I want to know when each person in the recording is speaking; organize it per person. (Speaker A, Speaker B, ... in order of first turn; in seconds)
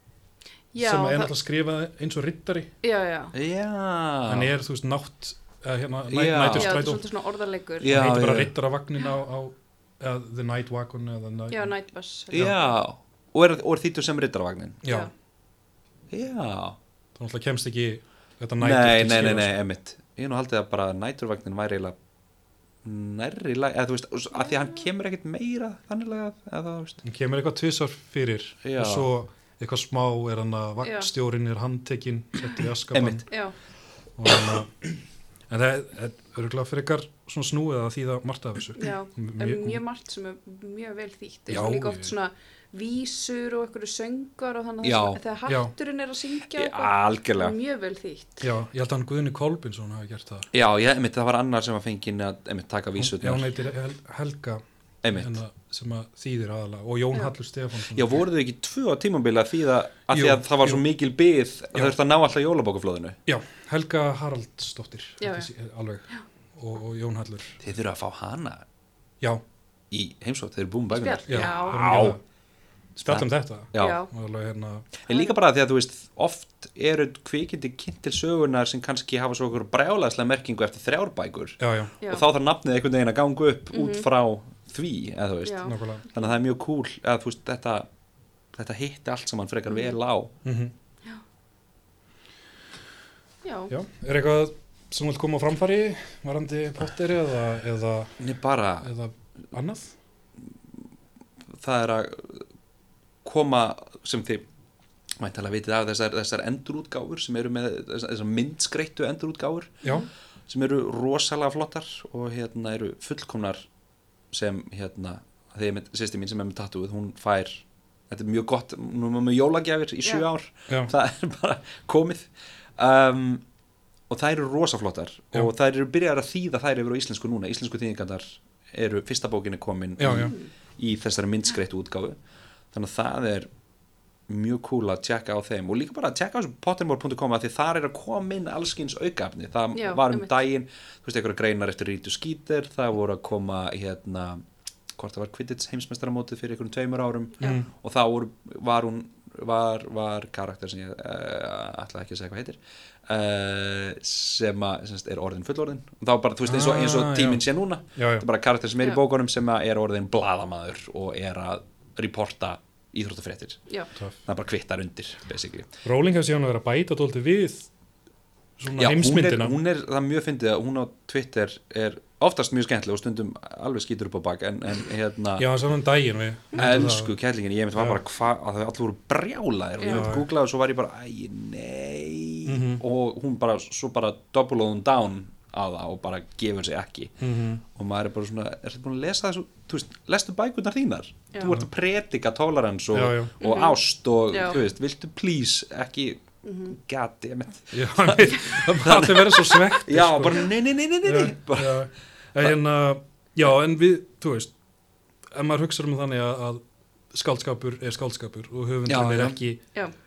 Speaker A: 0.7-1.3, 2.8-3.3, 6.5-8.1, 11.5-12.7, 30.8-31.1, 33.3-33.5, 38.8-48.5, 65.2-65.5, 70.9-72.2, 73.7-74.1, 75.1-75.3, 82.0-82.2, 83.7-84.1, 85.4-86.3, 89.7-90.0, 93.4-93.7, 130.1-130.5, 139.7-140.4, 179.8-180.1, 193.4-194.6, 196.4-196.7
Speaker B: 0.8-2.7, 4.3-7.0, 7.9-11.7, 14.8-15.1, 17.1-19.6, 27.0-33.3, 34.2-34.8, 35.5-39.8, 41.5-42.1, 45.5-45.7, 48.4-50.5, 53.0-58.2, 60.1-60.8, 63.2-67.6, 71.3-72.2, 73.0-74.9, 81.6-81.9, 85.7-86.0, 90.4-90.7, 93.7-98.2, 98.8-100.0, 130.0-130.3, 147.4-147.7, 156.4-158.2, 165.8-167.7, 168.6-169.6, 175.4-177.1, 179.9-180.2, 182.4-182.8, 187.2-187.6, 191.4-191.7, 192.9-193.3, 197.7-204.5, 205.3-206.6, 207.1-209.6
Speaker C: 3.3-4.5, 6.1-6.9, 7.8-8.5, 12.3-14.8, 16.1-16.8, 18.6-21.9, 22.8-27.0, 28.6-29.1, 32.9-33.2, 44.8-45.2, 46.5-47.6, 50.5-53.5, 55.0-55.4, 57.9-63.2, 67.6-68.7, 69.9-72.2, 73.0-74.0, 75.1-87.9, 88.5-90.3, 98.2-98.9, 101.5-102.5, 103.2-104.4, 105.2-109.8, 110.5-113.7, 114.3-123.4, 124.1-132.2, 132.7-133.5, 134.3-144.4, 144.9-163.6, 164.2-165.7, 168.8-175.5, 176.5-201.8, 208.9-209.4